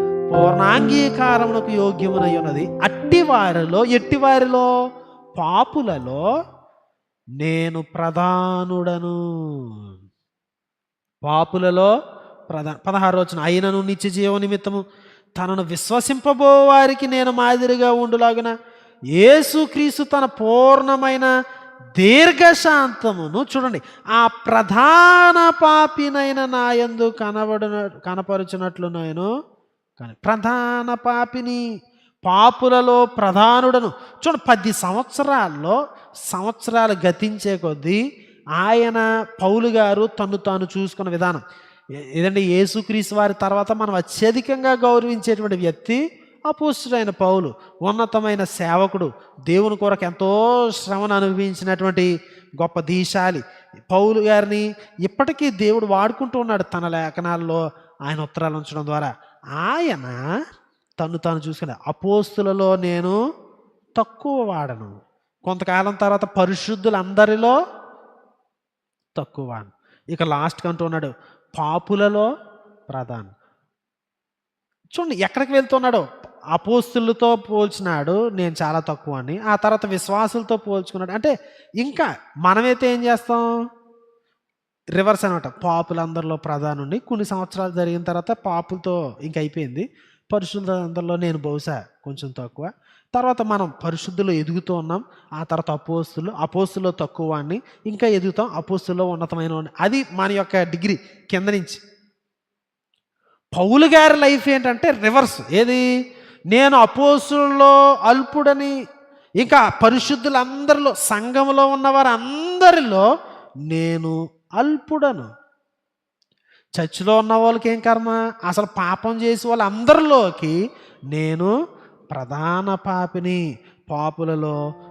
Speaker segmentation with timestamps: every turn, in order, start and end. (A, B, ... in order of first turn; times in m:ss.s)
0:00.3-0:04.7 A
0:05.4-0:06.2 A
0:07.4-0:09.7 A
0:11.2-0:11.9 A
0:12.5-0:14.8 A
0:15.4-0:18.5 A
0:19.1-0:21.3 A
0:22.0-0:29.3 A
0:30.0-0:31.6 A
0:32.2-0:35.8 A
0:36.3-0:38.0 A
0:38.6-0:41.4 A
0:42.2-1:00.2 A
1:01.0-1:03.2 A
1:04.0-1:07.6 A
1:09.2-1:12.3 A
1:12.9-1:13.3 A
1:14.9-1:23.5 A
1:25.0-1:41.8 A
1:43.6-1:45.8 A
1:46.5-1:48.7 A
1:49.4-1:53.0 A
1:53.7-1:55.3 A
1:56.8-2:00.6 A
2:01.1-2:01.5 A
2:02.1-2:04.6 A